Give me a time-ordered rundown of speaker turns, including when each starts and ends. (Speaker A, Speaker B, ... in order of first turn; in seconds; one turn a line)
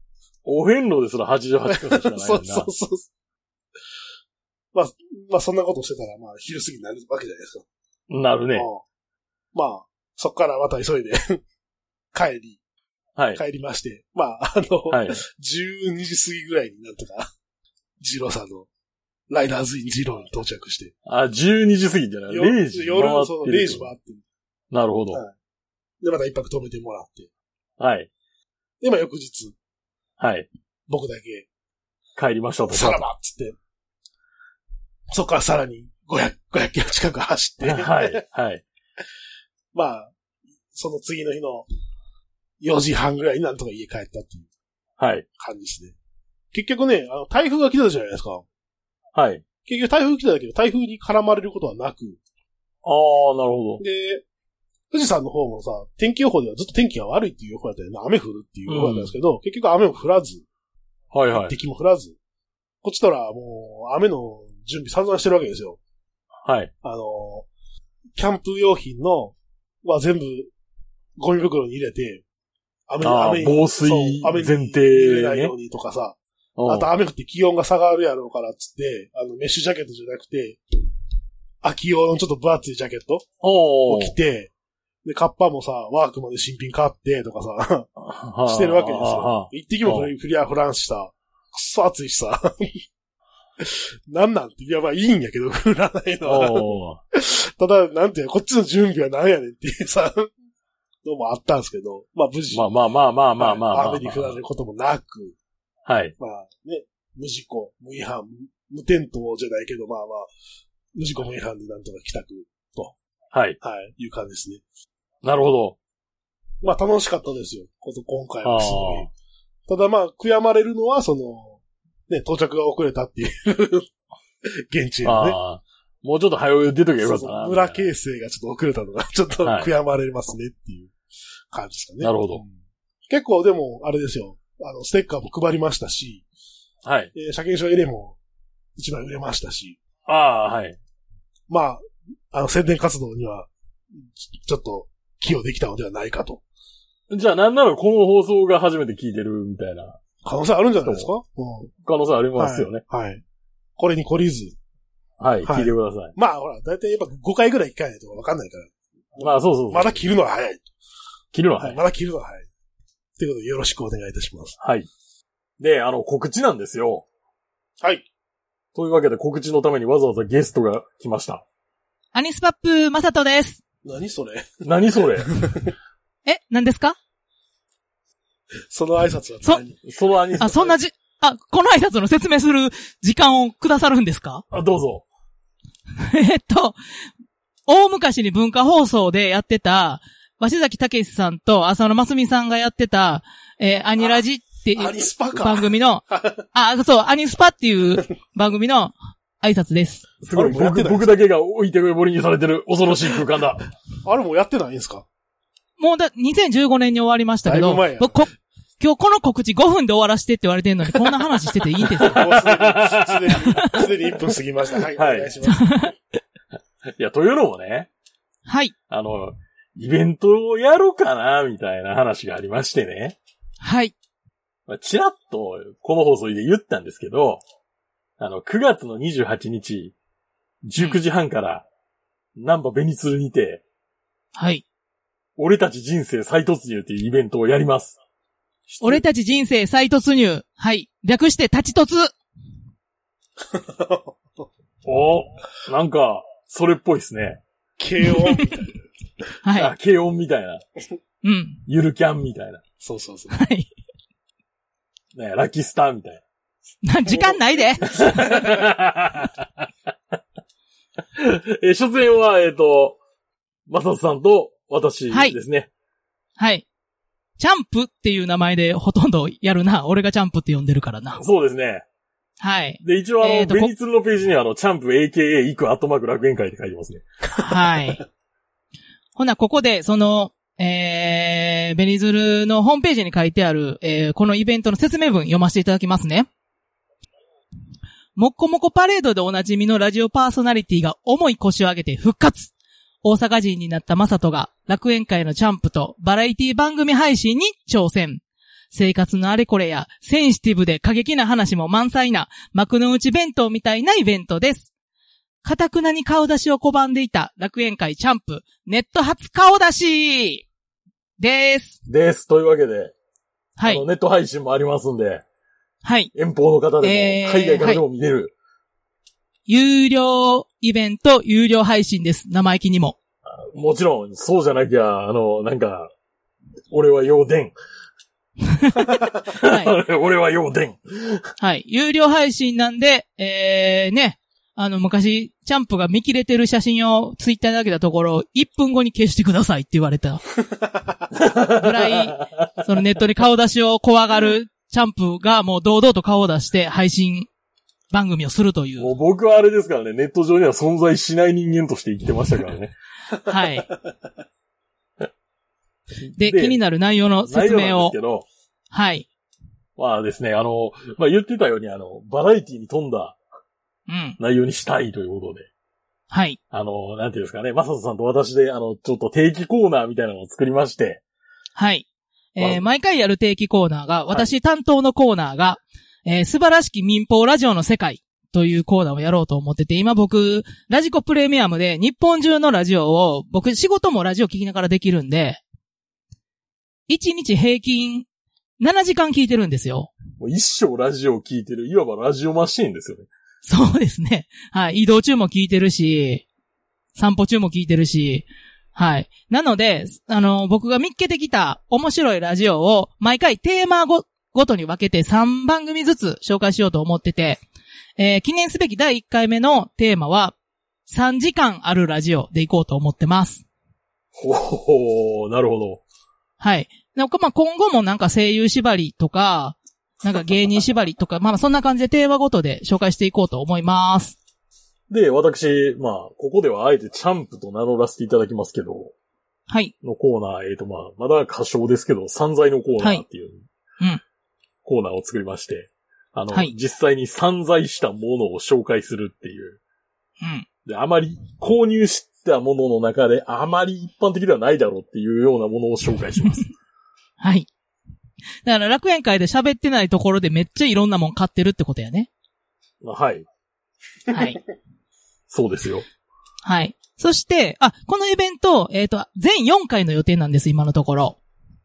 Speaker A: 0.5-2.7
Speaker B: 1.7-3.1
Speaker B: 4.7-7.7
Speaker A: 8.1-8.7
Speaker B: 8.5-8.8
Speaker B: 9.5-11.4
Speaker B: 12.1-12.6
Speaker A: 13.2-13.4
Speaker B: 13.3-17.3
Speaker A: 14.9-15.2
Speaker B: 18.0-18.7
Speaker B: 19.3-20.9
Speaker A: 21.1-23.9
Speaker B: 22.3-24.2
Speaker A: 24.7-25.2
Speaker B: 26.0-27.3
Speaker A: 27.8-28.1
Speaker B: 28.8-29.6
Speaker A: 30.2-30.5
Speaker B: 30.9-31.5
Speaker A: 32.2-33.0
Speaker B: 32.7-33.6
Speaker B: 35.1-38.2
Speaker A: 37.6-38.6
Speaker B: 39.7-40.1
Speaker B: 40.7-41.7
Speaker B: 42.6-44.5
Speaker A: 45.0-45.3
Speaker B: 45.4-46.0
Speaker B: 46.5-48.5
Speaker A: 49.1-49.5
Speaker B: 49.7-52.2
Speaker A: 52.8-53.8
Speaker B: 53.8-54.2
Speaker B: 54.9-60.5
Speaker A: 58.7-59.1
Speaker A: 61.1-61.5
Speaker B: 61.3-62.2
Speaker B: 62.8-65.8
Speaker A: 66.5-66.7
Speaker B: 66.8-67.5
Speaker B: 68.2-70.5
Speaker B: 71.2-72.2
Speaker B: 72.9-80.6
Speaker A: 73.0-75.5
Speaker A: 76.6-76.9
Speaker B: 81.6-83.3
Speaker A: 83.4-84.1
Speaker B: 83.9-84.5
Speaker B: 85.0-87.9
Speaker A: 88.0-90.1
Speaker B: 88.5-92.8
Speaker B: 93.6-100.3
Speaker A: 96.2-97.0
Speaker B: 101.0-102.7
Speaker A: 102.5-104.4
Speaker B: 103.4-105.4
Speaker A: 105.9-106.1
Speaker B: 106.2-110.3
Speaker B: 111.0-113.0
Speaker A: 113.3-113.6
Speaker B: 113.6-114.6
Speaker A: 115.2-115.8
Speaker B: 116.6-119.1
Speaker A: 118.4-119.1
Speaker B: 119.7-123.9
Speaker B: 124.5-125.4
Speaker A: 125.0-127.9
Speaker B: 127.0-130.9
Speaker A: 129.4-129.7
Speaker B: 131.5-132.5
Speaker A: 132.0-132.4
Speaker B: 133.1-136.2
Speaker A: 136.8-137.1
Speaker B: 137.1-138.2
Speaker B: 138.8-139.8
Speaker A: 140.1-140.8
Speaker B: 141.5-146.4
Speaker A: 147.1-150.0
Speaker B: 150.2-151.7
Speaker A: 150.8-151.1
Speaker A: 151.8-152.8
Speaker B: 152.4-153.2
Speaker B: 153.8-154.6
Speaker A: 155.2-156.1
Speaker B: 155.4-160.7
Speaker A: 159.2-160.0
Speaker A: 161.3-161.8
Speaker B: 161.6-162.5
Speaker B: 163.2-164.6
Speaker A: 164.6-164.9
Speaker A: 165.6-167.1
Speaker B: 167.8-168.1
Speaker A: 168.7-171.4
Speaker C: 172.1-173.6
Speaker B: 173.8-174.7
Speaker A: 174.6-175.3
Speaker B: 175.3-175.7
Speaker C: 176.3-176.9
Speaker B: 178.7-179.8
Speaker A: 179.8-180.7
Speaker C: 180.4-184.4
Speaker A: 184.5-185.1
Speaker C: 186.0-186.8
Speaker C: 187.7-200.1
Speaker B: 194.8-196.4
Speaker A: 200.2-203.7
Speaker B: 200.3-201.1
Speaker B: 204.0-205.1
Speaker C: 205.8-212.3
Speaker B: 207.4-208.2
Speaker B: 212.0-215.7
Speaker A: 212.1-213.6
Speaker A: 214.9-215.3
Speaker C: 215.4-215.9
Speaker A: 216.9-217.9
Speaker C: 218.4-218.7
Speaker A: 218.9-223.2
Speaker C: 223.6-223.9
Speaker A: 224.7-227.4
Speaker A: 228.2-229.9
Speaker A: 230.6-231.6
Speaker A: 232.4-233.6
Speaker C: 234.3-234.6
Speaker A: 235.4-238.0
Speaker A: 238.7-239.0
Speaker C: 238.8-242.1
Speaker B: 243.5-244.4
Speaker A: 244.8-247.4
Speaker B: 247.8-248.8
Speaker C: 248.2-248.5
Speaker C: 249.4-249.7
Speaker A: 249.6-250.6
Speaker C: 251.2-251.6
Speaker A: 251.7-252.6
Speaker B: 252.8-253.4
Speaker C: 253.3-253.7
Speaker A: 255.1-256.2
Speaker C: 256.8-258.4
Speaker B: 257.1-258.5
Speaker A: 258.1-259.5
Speaker A: 261.2-263.0
Speaker A: 263.7-265.7
Speaker C: 266.4-266.6
Speaker C: 267.4-271.2
Speaker A: 271.2-271.9
Speaker C: 272.4-273.7
Speaker A: 272.8-277.0
Speaker C: 277.4-278.0
Speaker C: 279.2-286.3
Speaker C: 288.2-292.5
Speaker C: 293.0-304.7
Speaker C: 305.4-310.4
Speaker C: 311.2-311.8
Speaker A: 311.9-312.9
Speaker C: 313.6-313.8
Speaker A: 313.6-315.2
Speaker C: 315.8-316.1
Speaker A: 316.1-318.3
Speaker C: 316.8-317.8
Speaker C: 319.4-323.0
Speaker A: 323.4-325.9
Speaker A: 326.7-327.5
Speaker C: 328.5-329.7
Speaker A: 329.3-331.3
Speaker C: 331.4-340.2
Speaker A: 341.1-342.5
Speaker C: 341.5-347.3
Speaker C: 347.9-348.9
Speaker A: 348.8-352.7
Speaker C: 353.2-353.7
Speaker A: 356.0-356.6
Speaker C: 356.2-357.9
Speaker A: 357.3-358.3
Speaker C: 358.7-359.1
Speaker A: 359.8-363.2
Speaker C: 363.9-364.2
Speaker A: 364.2-365.5
Speaker C: 366.1-366.4
Speaker A: 366.5-371.0
Speaker C: 371.6-385.4
Speaker C: 386.9-388.1
Speaker C: 388.6-389.9
Speaker A: 390.2-393.1
Speaker C: 393.4-396.2
Speaker C: 396.9-407.4
Speaker C: 408.0-410.4
Speaker C: 410.9-413.4
Speaker A: 414.2-415.8
Speaker C: 416.4-424.2
Speaker A: 424.9-428.9
Speaker A: 429.8-433.4
Speaker A: 434.6-439.6
Speaker C: 440.2-440.4
Speaker A: 440.6-446.5
Speaker C: 447.2-447.5
Speaker C: 448.4-452.1
Speaker A: 452.8-453.3
Speaker C: 454.1-454.4
Speaker A: 455.3-455.9
Speaker C: 456.4-461.2